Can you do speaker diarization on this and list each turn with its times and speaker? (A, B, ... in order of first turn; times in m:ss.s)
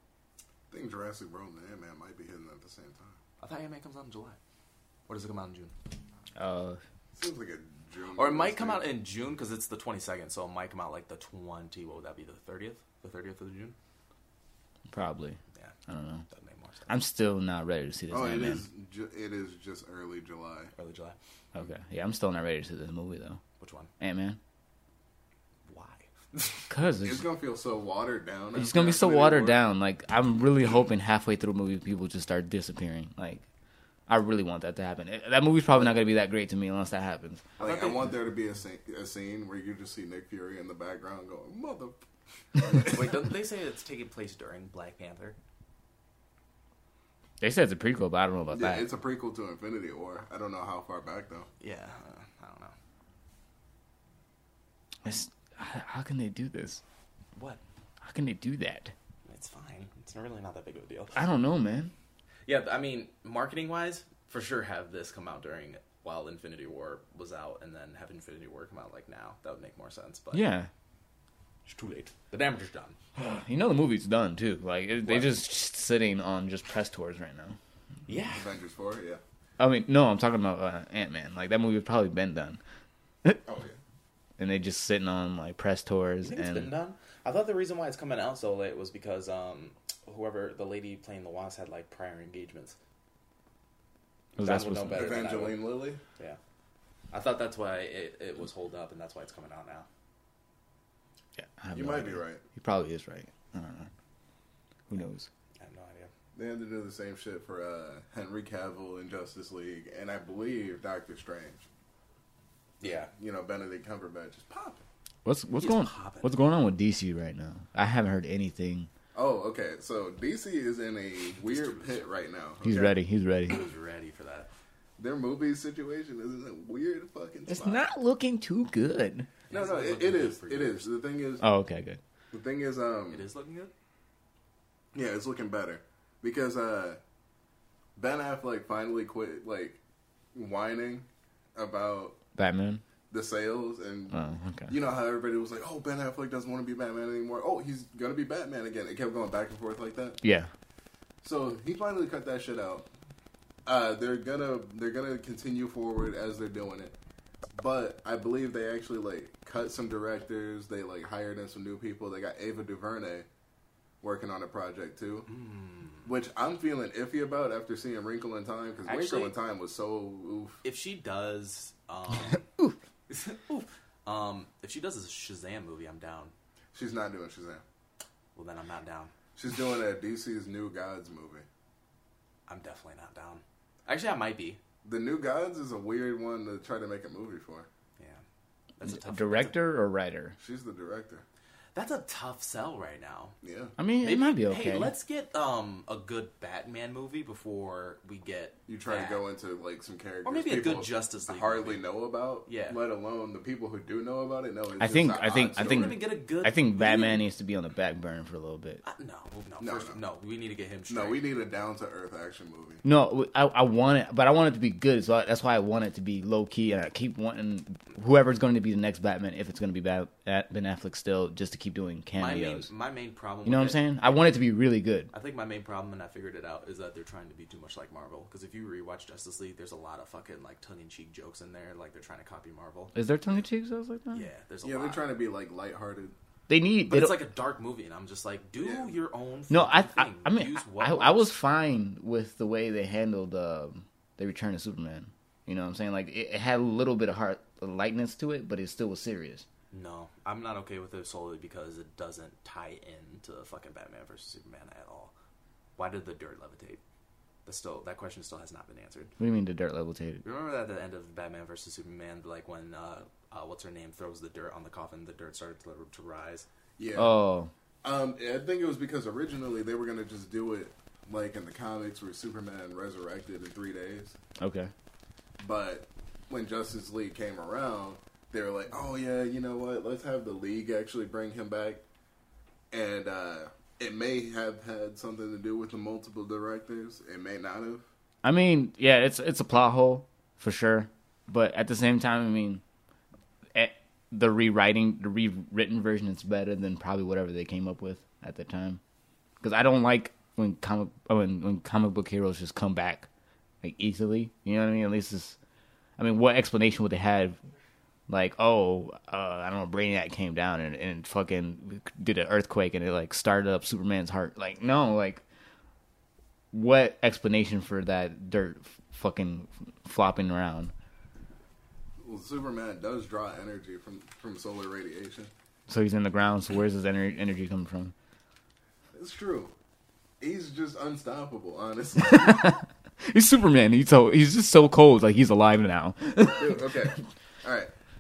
0:00.7-0:03.2 A
0:03.4-0:04.4 B
0:05.1-0:05.7 B
0:06.4-0:06.8 C
0:07.2-0:08.9 A
0:08.2-0:13.8 B
0:14.9-0:16.2 C
0:16.3-0:17.0 B
0:16.9-0:18.6 C
0:18.1-0:20.7 A
0:20.8-0:21.2 B
0:21.5-0:23.4 C
0:23.6-0:23.9 B
0:24.0-0:24.4 C
0:25.7-0:26.7 B
0:26.7-0:27.2 C
0:27.0-0:29.6 A
0:28.6-0:33.4 C
0:34.1-0:37.5 C
0:37.6-0:38.1 B
0:37.6-0:42.0 A
0:42.6-0:43.1 A
0:42.8-0:45.4 B
0:47.4-0:48.9 C
0:48.5-0:51.5 A
0:51.6-0:52.7 B
0:55.0-0:56.8 C
0:57.4-0:57.6 B
0:58.0-0:58.9 C
0:59.3-1:01.2 B
1:01.2-1:01.9 C
1:02.5-1:10.4 B
1:10.3-1:10.7 C
1:11.7-1:13.0 B
1:13.2-1:17.6 C
1:18.1-1:18.4 B
1:18.3-1:19.2 A
1:19.6-1:22.6 C
1:23.5-1:23.8 A
1:24.4-1:26.7 C
1:26.2-1:32.8 B
1:34.4-1:36.4 B
1:34.4-1:35.2 C
1:34.9-1:36.0 A
1:37.1-1:39.9 B
1:41.4-1:43.9 C
1:41.7-1:42.4 A
1:44.9-1:45.3 C
1:45.6-1:46.1 B
1:46.4-1:51.7 A
1:52.8-1:53.1 B
1:52.8-1:54.8 A
1:55.2-1:58.9 C
1:55.6-1:56.3 B
1:59.2-2:03.0 A
2:01.4-2:02.1 B
2:02.6-2:03.6 C
2:03.5-2:04.5 B
2:05.0-2:07.8 A
2:07.5-2:09.3 C
2:09.5-2:11.0 B
2:09.5-2:11.4 A
2:11.4-2:12.0 C
2:12.3-2:13.3 A
2:13.1-2:13.7 B
2:14.9-2:17.0 A
2:18.0-2:19.8 A
2:20.3-2:22.2 A
2:22.4-2:22.8 C
2:23.1-2:30.2 A
2:24.1-2:24.7 C
2:30.2-2:30.5 C
2:31.2-2:32.9 A
2:33.7-2:37.0 A
2:37.6-2:43.3 A
2:44.0-2:45.3 A
2:45.3-2:46.1 B
2:46.0-2:50.6 A
2:48.9-2:49.4 B
2:50.6-2:52.5 B
2:53.1-2:56.3 B
2:56.7-2:57.6 A
2:58.4-2:59.1 B
2:59.4-3:01.5 A
3:02.5-3:04.6 B
3:04.8-3:07.7 A
3:08.0-3:08.2 B
3:08.8-3:09.6 B
3:08.8-3:10.4 C
3:10.4-3:11.2 A
3:11.8-3:13.4 B
3:13.4-3:13.7 A
3:13.8-3:14.9 C
3:14.0-3:19.2 B
3:18.7-3:26.0 A
3:20.2-3:21.8 B
3:22.5-3:22.8 B
3:24.8-3:28.8 C
3:25.4-3:27.3 B
3:28.8-3:31.2 B
3:29.6-3:30.0 A
3:30.9-3:32.8 A
3:32.8-3:42.7 C
3:42.2-3:44.4 B
3:43.4-3:45.1 C
3:45.1-3:52.9 B
3:52.9-3:54.3 C
3:54.1-3:55.1 B
3:54.6-3:56.1 A
3:56.5-3:57.2 C
3:56.9-4:01.3 B
3:58.6-3:58.9 A
3:59.5-4:09.4 C
4:09.7-4:15.1 B
4:15.8-4:16.8 B
4:17.5-4:19.1 B
4:19.2-4:20.2 C
4:20.2-4:26.5 B
4:26.8-4:27.2 A
4:27.0-4:27.5 C
4:27.8-4:34.2 A
4:34.4-4:34.7 C
4:35.4-4:41.8 A
4:42.7-4:47.9 A
4:48.2-4:52.6 C
4:53.5-4:58.8 C
4:59.4-5:03.1 C
5:03.6-5:05.4 C
5:06.0-5:07.4 C
5:08.1-5:15.2 C
5:16.5-5:20.7 C
5:22.0-5:25.3 A
5:25.7-5:27.9 C
5:28.9-5:29.5 A
5:30.2-5:32.5 A
5:32.0-5:36.8 C
5:36.3-5:37.7 A